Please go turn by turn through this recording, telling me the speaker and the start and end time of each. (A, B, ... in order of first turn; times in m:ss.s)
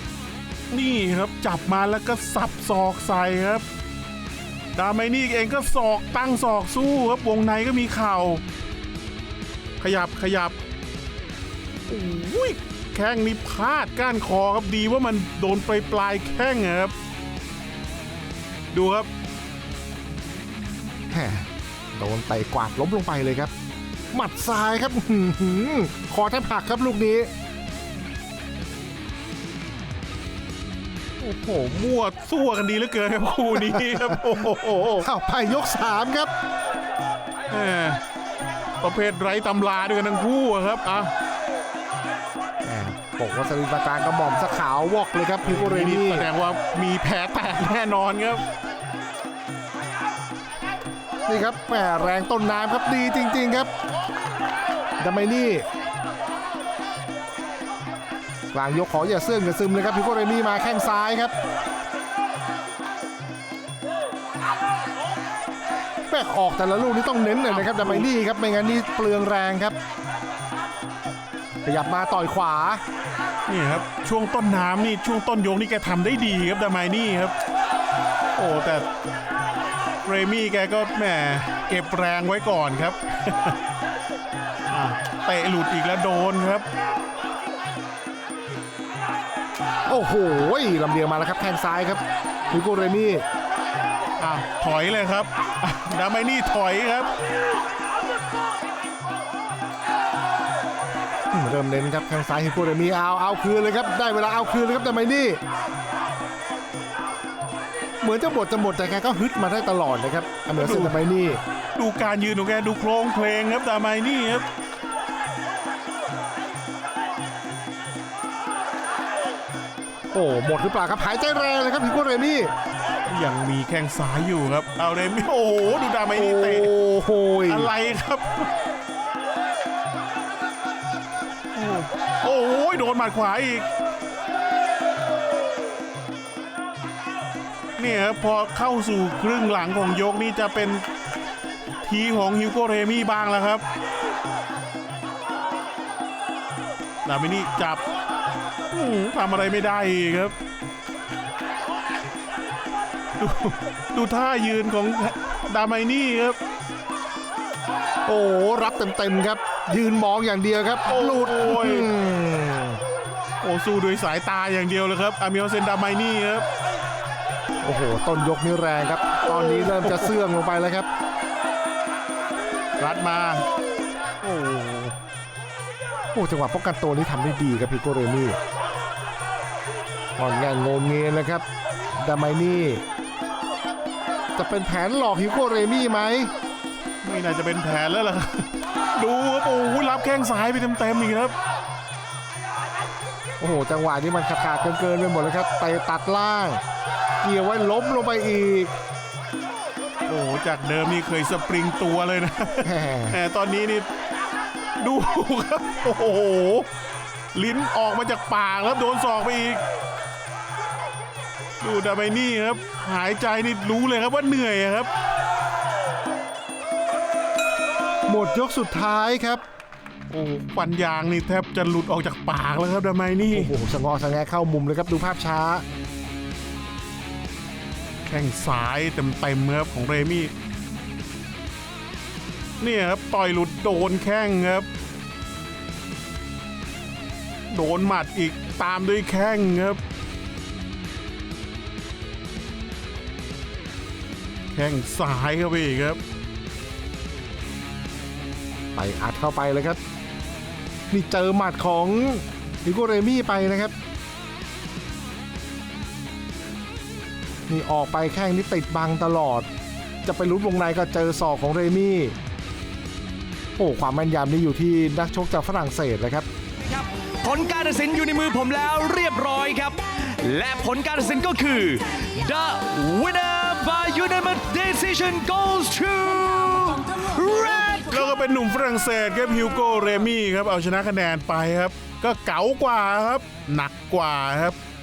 0:00.7-0:03.6 A
0:04.7-0:08.4 A
0:09.8-0:10.6 A
0:11.9-0:16.9 A
0:18.7-0:19.1 A
0:21.1-0:23.5 B
0:24.1-0:27.3 B
0:31.2-0:35.1 A
0:33.6-0:34.2 B
0:35.0-0:36.3 B
0:37.5-0:38.0 A
0:38.8-0:41.1 A
0:42.6-0:46.3 B
0:45.4-0:48.4 A
0:51.3-0:53.7 B
0:55.0-0:55.6 B
0:58.5-1:01.3 B
1:06.1-1:09.8 B
1:07.5-1:08.1 A
1:11.6-1:12.8 B
1:13.5-1:17.3 A
1:18.4-1:18.9 A
1:20.0-1:23.6 A
1:24.7-1:26.7 A
1:29.9-1:33.2 B
1:34.2-1:37.1 A
1:41.3-1:45.4 B
1:48.0-1:51.4 B
1:50.6-1:51.0 A
1:51.8-1:54.4 A
2:00.1-2:02.5 B
2:03.1-2:06.7 A
2:06.1-2:07.7 B
2:07.5-2:08.5 A
2:11.5-2:13.7 A
2:17.8-2:20.8 A
2:21.8-2:23.6 A
2:27.0-2:27.8 A
2:28.7-2:30.3 A
2:33.2-2:36.4 A
2:38.0-2:42.8 B
2:40.9-2:41.9 A
2:43.4-2:46.4 A
2:47.6-2:50.9 B
2:49.2-2:50.1 A
2:52.8-2:53.4 A
2:54.2-2:54.9 A
2:56.1-2:58.4 B
3:00.2-3:01.4 B
3:02.0-3:02.8 B
3:04.4-3:06.3 B
3:07.0-3:11.3 A
3:13.4-3:16.6 B
3:17.2-3:18.7 B
3:20.1-3:23.9 A
3:22.6-3:23.2 B
3:24.8-3:26.7 A
3:27.3-3:29.6 A
3:31.6-3:34.9 A
3:38.1-3:39.4 B
3:40.1-3:43.5 A
3:43.3-3:45.6 B
3:48.0-3:50.3 A
3:52.6-3:54.7 A
3:57.5-3:59.8 A
4:04.5-4:06.0 A
4:08.7-4:09.8 B
4:10.9-4:13.7 B
4:17.5-4:19.5 B
4:20.0-4:22.1 B
4:23.6-4:26.2 B
4:26.6-4:38.0 C
4:37.8-4:44.6 A